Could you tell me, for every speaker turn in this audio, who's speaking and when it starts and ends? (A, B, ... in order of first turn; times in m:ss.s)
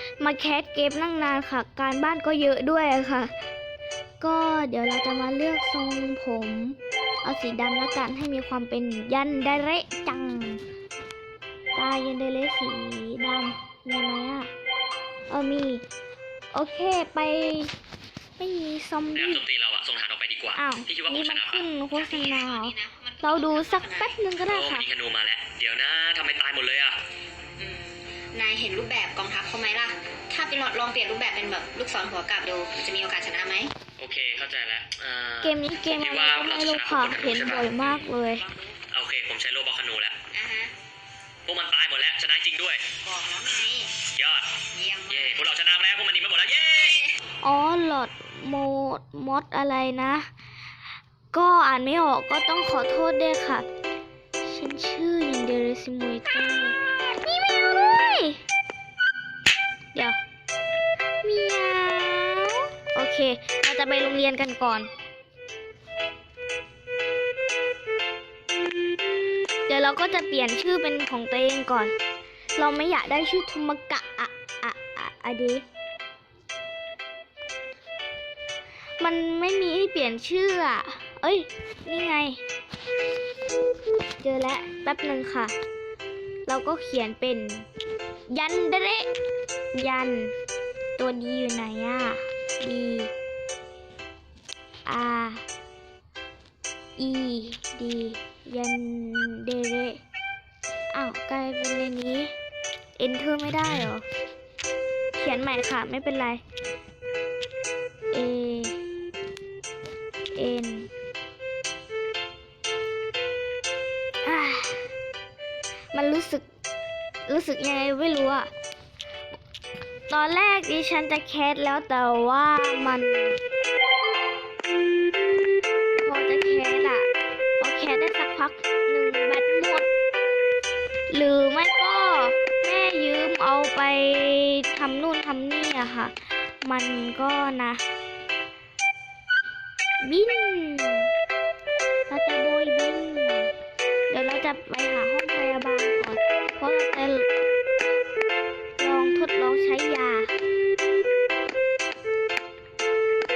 0:00.2-0:03.3 A
0:04.2-0:10.6 A
0:11.8-0:14.5 A
0:15.3-0:15.8 A
0:16.5-0:17.7 A
0:18.4-0:19.4 A
0:19.1-0:21.7 B
0:20.6-0:24.9 A
0:22.0-0:24.2 C
0:24.5-0:27.0 B
0:27.6-0:33.7 C
0:34.0-0:38.1 B
0:35.4-0:38.5 A
0:38.8-0:40.2 B
0:40.3-0:40.7 C
0:41.5-0:42.8 B
0:43.0-0:43.9 C
0:44.2-0:44.5 B
0:44.7-0:45.4 C
0:45.1-0:47.0 B
0:47.4-0:50.3 A
0:51.3-0:53.7 A
0:54.4-0:58.4 A
1:01.2-1:04.9 A
1:09.7-1:11.9 A
1:12.6-1:15.6 A
1:19.0-1:22.4 A
1:24.2-1:25.5 A
1:26.5-1:27.7 A
1:28.3-1:29.1 A
1:29.7-1:30.4 A
1:31.0-1:33.1 A
1:34.9-1:35.4 A
1:37.0-1:40.0 A
1:40.9-1:42.3 A
1:43.0-1:44.0 A
1:45.2-1:46.4 A
1:48.1-1:48.8 A
1:50.4-1:50.9 A
1:54.2-1:54.9 A
1:55.9-1:56.5 A
1:57.3-1:58.5 A
2:00.1-2:03.4 A
2:06.0-2:09.9 A
2:11.1-2:17.8 A
2:20.0-2:21.1 A
2:22.1-2:23.5 A
2:24.1-2:27.3 A
2:28.8-2:30.3 A